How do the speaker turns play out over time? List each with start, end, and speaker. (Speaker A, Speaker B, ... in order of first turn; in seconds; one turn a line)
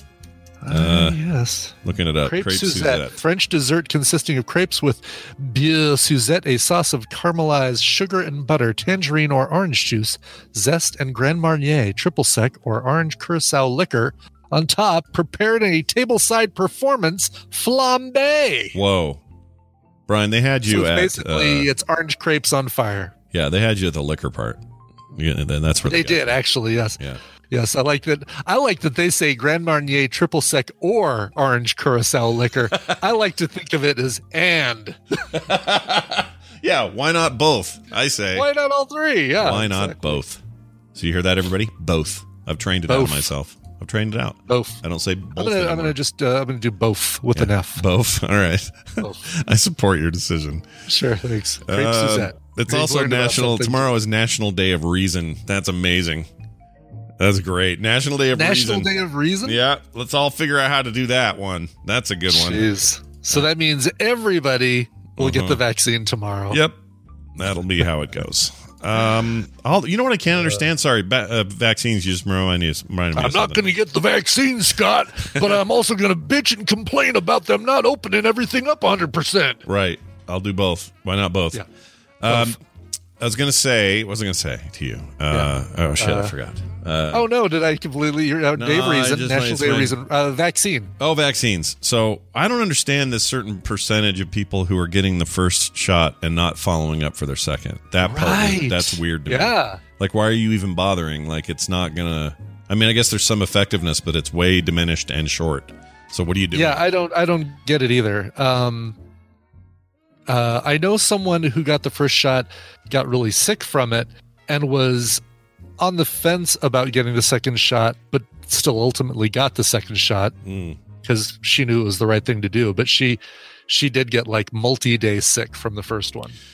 Speaker A: 0.6-18.8
Speaker B: 0.7-1.2
Speaker B: 1.8-3.1
Speaker B: 18.7-19.2
Speaker B: 20.1-21.7
Speaker A: 20.7-23.1
Speaker B: 23.3-24.6
Speaker B: 25.1-26.4
Speaker A: 25.9-35.1
Speaker B: 35.3-38.5
Speaker A: 38.3-40.2
Speaker B: 39.4-40.4
Speaker B: 40.9-46.0
Speaker A: 42.9-43.3
Speaker A: 44.5-44.8
Speaker A: 45.4-47.8
Speaker B: 47.3-50.6
Speaker A: 50.9-53.9
Speaker B: 51.6-56.3
Speaker B: 57.2-58.9
Speaker A: 58.3-59.6
Speaker B: 59.4-62.7
Speaker A: 62.3-66.6
Speaker B: 65.2-65.6
Speaker B: 66.5-66.8
Speaker B: 67.3-73.7
Speaker A: 73.1-79.6
Speaker B: 79.7-81.6
Speaker B: 82.2-82.6
Speaker A: 82.2-82.5
Speaker B: 83.2-87.3
Speaker A: 85.3-86.3
Speaker A: 87.1-90.9
Speaker B: 88.5-90.0
Speaker B: 91.0-106.8
Speaker A: 98.0-99.8
Speaker A: 106.5-109.0
Speaker A: 110.3-115.2
Speaker A: 115.8-120.3
Speaker B: 120.4-120.8
Speaker A: 121.0-126.4